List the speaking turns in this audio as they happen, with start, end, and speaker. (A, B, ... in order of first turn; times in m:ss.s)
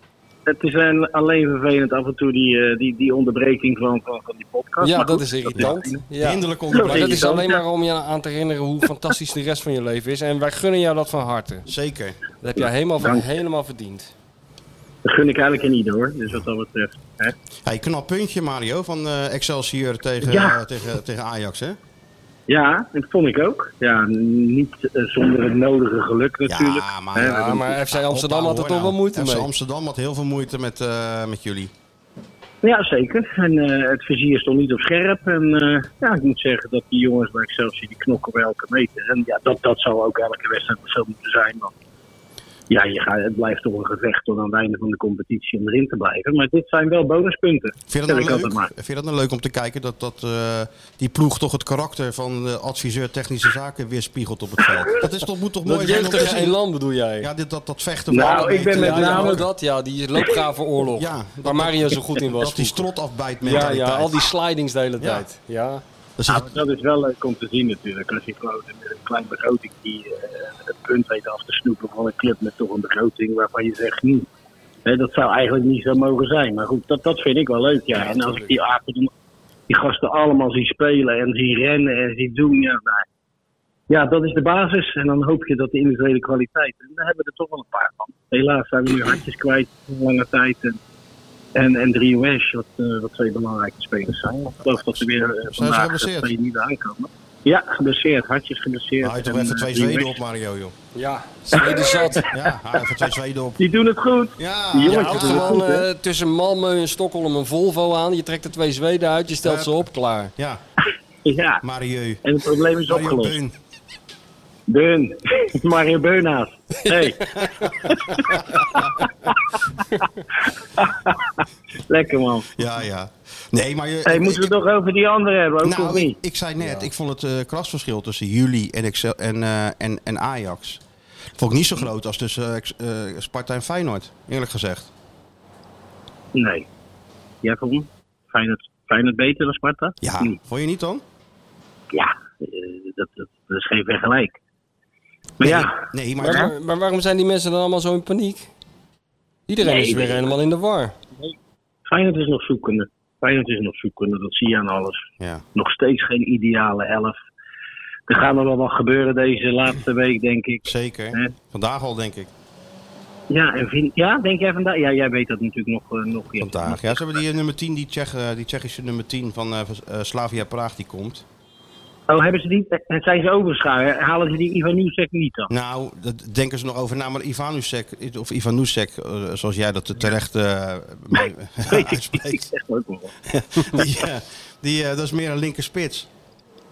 0:00.4-0:06.0 A
0:04.8-0:11.7 B
0:05.6-0:07.3 C
0:06.7-0:07.6 A
0:11.6-0:12.2 C
0:12.4-0:14.1 B
0:13.0-0:13.3 A
0:15.0-0:17.3 A
0:17.6-0:21.8 C
0:20.2-0:20.6 A
0:22.5-0:27.4 A
0:26.5-0:31.7 C
0:27.2-0:29.5 B
0:32.6-0:41.7 A
0:42.7-0:48.7 A
0:47.9-0:56.6 C
0:55.6-0:57.3 B
0:57.2-0:59.4 C
0:58.1-0:59.5 A
0:58.4-1:02.9 B
1:00.8-1:04.3 C
1:03.4-1:05.8 B
1:05.0-1:05.2 C
1:06.2-1:06.6 C
1:06.3-1:14.3 A
1:14.8-1:19.1 A
1:18.0-1:18.6 B
1:19.7-1:23.0 A
1:23.9-1:30.8 A
1:31.5-1:40.2 A
1:35.5-1:36.3 C
1:39.0-1:40.7 C
1:40.9-1:42.3 B
1:41.5-1:45.8 A
1:42.3-1:43.6 C
1:44.4-1:45.6 C
1:44.8-1:50.3 B
1:49.4-1:49.7 C
1:51.2-1:51.6 A
1:51.6-1:52.2 C
1:52.2-1:53.4 A
1:52.8-1:53.5 C
1:54.7-1:59.4 A
1:56.8-1:58.4 B
2:00.8-2:02.5 A
2:02.5-2:04.5 C
2:04.0-2:06.2 A
2:05.6-2:10.8 C
2:11.4-2:14.9 C
2:16.3-2:16.7 A
2:17.4-2:20.4 A
2:20.0-2:21.0 C
2:21.9-2:24.4 A
2:25.4-2:26.5 A
2:25.4-2:26.5 C
2:26.2-2:28.5 B
2:29.5-2:31.0 B
2:29.6-2:30.3 A
2:31.9-2:35.0 A
2:35.2-2:35.4 C
2:35.5-2:37.2 A
2:38.1-2:41.3 A
2:40.6-2:42.3 C
2:43.3-2:47.0 A
2:46.4-2:51.2 C
2:52.1-2:55.5 A
2:55.5-3:02.5 C
3:01.6-3:03.1 A
3:03.3-3:06.1 C